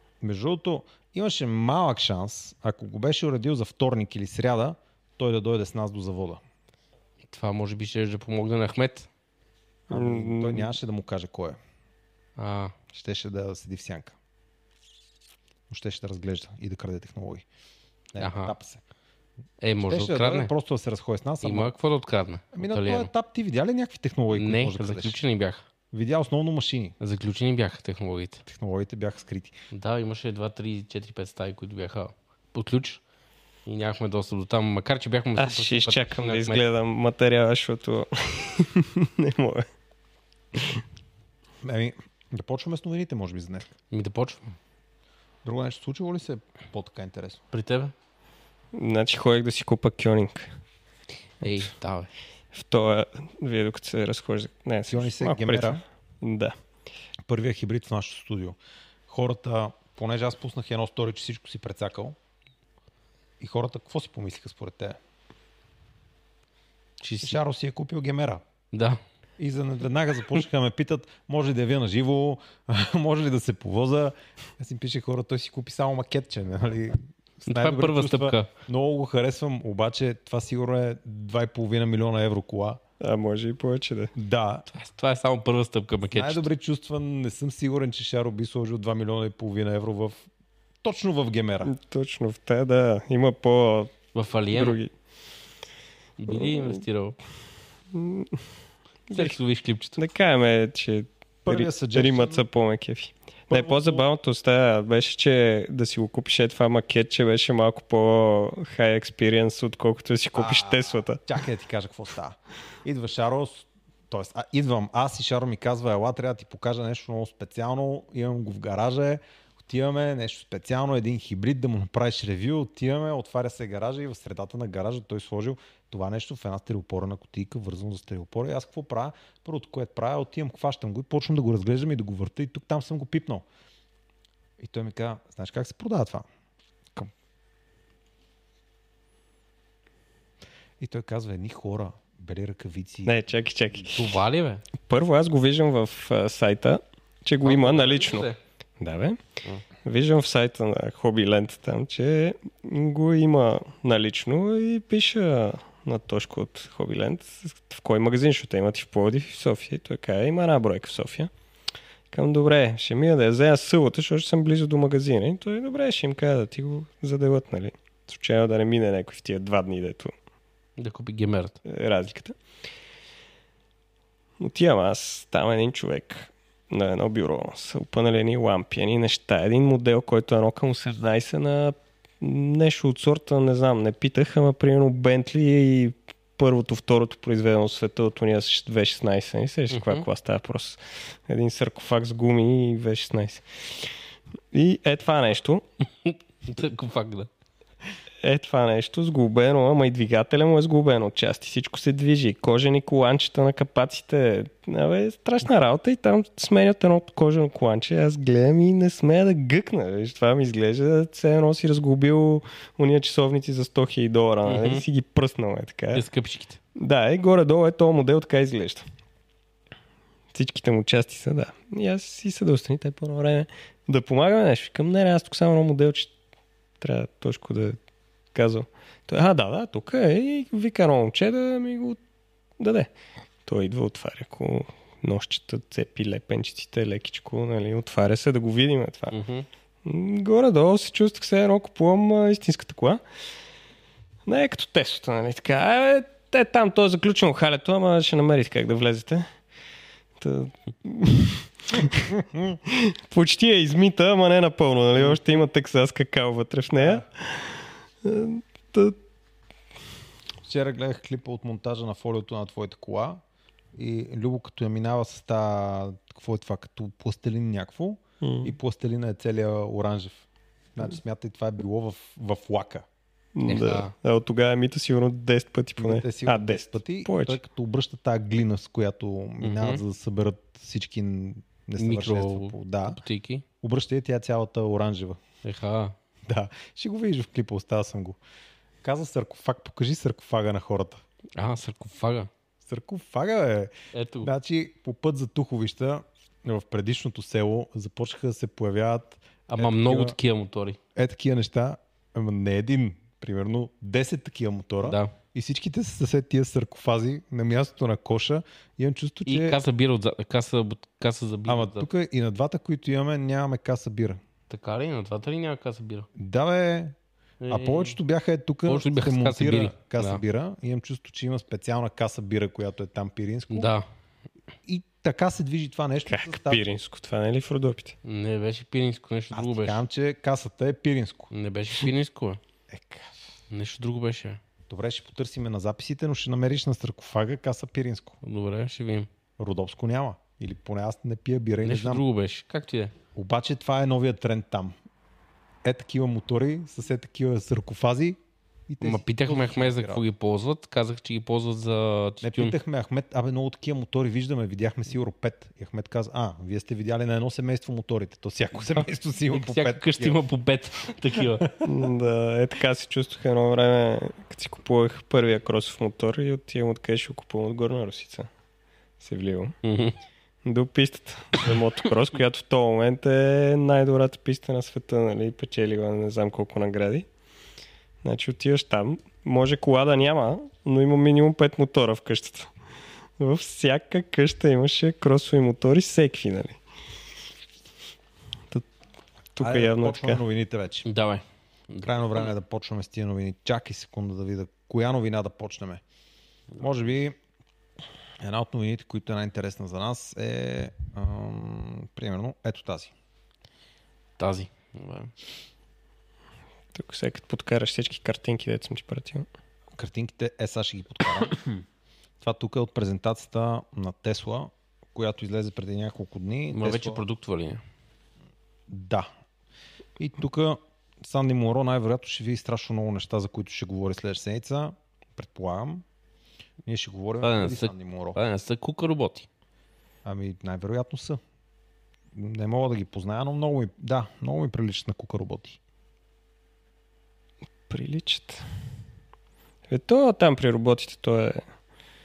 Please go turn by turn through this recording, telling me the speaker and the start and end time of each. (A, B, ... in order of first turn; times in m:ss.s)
0:00.2-0:06.4 A
0:07.3-0:09.1 B
0:09.9-0:11.6 A
0:09.9-0:10.7 C
0:12.4-0:12.7 B
0:12.9-0:14.2 A
0:15.7-0:17.4 A
0:18.1-0:18.8 A
0:18.2-0:18.5 B
0:19.6-0:20.5 B
0:19.9-0:21.7 A
0:21.4-0:23.1 B
0:22.5-0:25.2 A
0:24.3-0:25.6 B
0:25.9-0:27.0 A
0:27.0-0:28.4 B
0:28.5-0:29.5 A
0:29.7-0:33.0 B
0:33.7-0:36.6 B
0:35.4-0:39.7 C
0:40.6-0:40.8 C
0:41.6-0:43.7 A
0:43.9-0:44.5 B
0:45.4-0:47.4 A
0:47.5-0:47.9 B
0:48.7-0:50.5 C
0:51.4-0:52.1 B
0:52.5-0:56.6 C
0:54.9-0:55.8 A
0:57.3-0:58.6 A
0:59.1-1:02.2 A
1:03.4-1:05.0 A
1:07.0-1:07.4 B
1:07.2-1:08.4 A
1:08.7-1:09.0 B
1:09.4-1:22.8 A
1:17.5-1:18.5 B
1:23.0-1:24.1 C
1:24.2-1:24.7 A
1:24.7-1:26.5 B
1:26.1-1:30.3 A
1:30.8-1:31.8 A
1:31.6-1:34.0 C
1:34.1-1:34.8 B
1:34.5-1:34.9 C
1:36.2-1:37.2 B
1:36.3-1:36.8 C
1:37.9-1:38.4 C
1:39.1-1:39.4 C
1:39.1-1:40.0 B
1:40.0-1:51.2 C
1:41.4-1:42.5 A
1:43.5-1:44.0 A
1:50.3-2:13.4 A
2:14.6-2:16.3 A
2:20.8-2:23.1 A
2:23.0-2:24.2 C
2:23.9-2:24.6 B
2:24.8-2:29.2 C
2:27.4-2:28.4 B
2:29.8-2:41.3 C
2:42.1-2:50.1 C
2:50.8-2:51.6 B
2:51.6-2:52.4 C
2:54.4-3:13.9 C
3:09.7-3:10.1 B
3:14.5-3:15.6 C
3:16.0-3:17.3 B
3:18.2-3:36.0 C
3:34.5-3:34.8 B
3:35.9-3:36.6 B
3:36.8-3:38.8 C
3:40.3-3:46.1 C
3:46.8-3:47.8 C
3:48.3-3:52.0 C
3:52.6-3:52.9 C
3:53.4-3:59.2 C
3:59.1-3:59.5 B
3:59.8-4:03.0 C
4:04.3-4:09.3 C
4:10.2-4:19.0 C
4:15.0-4:15.4 A
4:16.8-4:17.0 A
4:20.4-4:23.2 A
4:23.8-4:32.9 A
4:28.2-4:28.6 C
4:33.4-4:37.4 C
4:33.5-4:33.9 B
4:35.8-4:43.0 A
4:39.4-4:39.8 B
4:41.8-4:43.4 B
4:43.6-4:45.2 A
4:45.4-4:46.0 B
4:46.3-4:48.2 A
4:48.8-4:51.0 A
4:51.4-4:52.3 B
4:52.6-5:00.2 A
4:53.9-4:54.3 B
4:59.5-5:00.8 B
5:01.0-5:09.6 A
5:04.8-5:05.1 B
5:09.3-5:11.9 B
5:11.5-5:14.2 A
5:14.5-5:16.1 B
5:16.2-5:17.0 A
5:17.4-5:18.0 B
5:17.5-5:23.7 A
5:18.7-5:20.2 B
5:23.5-5:23.8 B
5:24.7-5:26.6 A
5:26.1-5:28.0 C
5:28.0-5:29.8 B
5:29.3-5:31.3 A
5:31.3-5:32.4 B
5:32.7-5:33.1 A
5:33.5-5:34.4 B
5:34.7-5:38.2 A
5:38.2-5:39.1 B
5:39.4-5:42.0 A
5:41.6-5:42.9 B
5:43.2-5:44.7 A
5:45.6-5:50.0 A
5:48.8-5:52.6 B
5:52.2-6:00.2 A
5:59.3-6:01.5 B
6:01.6-6:08.3 C
6:09.0-6:09.6 C
6:09.6-6:10.0 B
6:10.4-6:17.1 C
6:18.0-6:22.5 C
6:23.2-6:26.6 C
6:29.4-6:30.2 C
6:29.4-6:30.9 A
6:30.8-6:32.3 B
6:31.8-6:35.8 A
6:36.6-6:37.2 A
6:38.2-6:42.9 A
6:44.2-6:45.1 B
6:46.7-6:49.3 C
6:49.8-6:51.4 A
6:52.2-6:57.0 A
6:56.5-6:57.6 B
6:58.7-6:59.1 A
7:00.0-7:05.8 A
7:06.7-7:08.2 A
7:07.2-7:09.3 B
7:10.0-7:11.2 A
7:12.2-7:15.6 A
7:17.7-7:18.4 C
7:19.7-7:21.4 C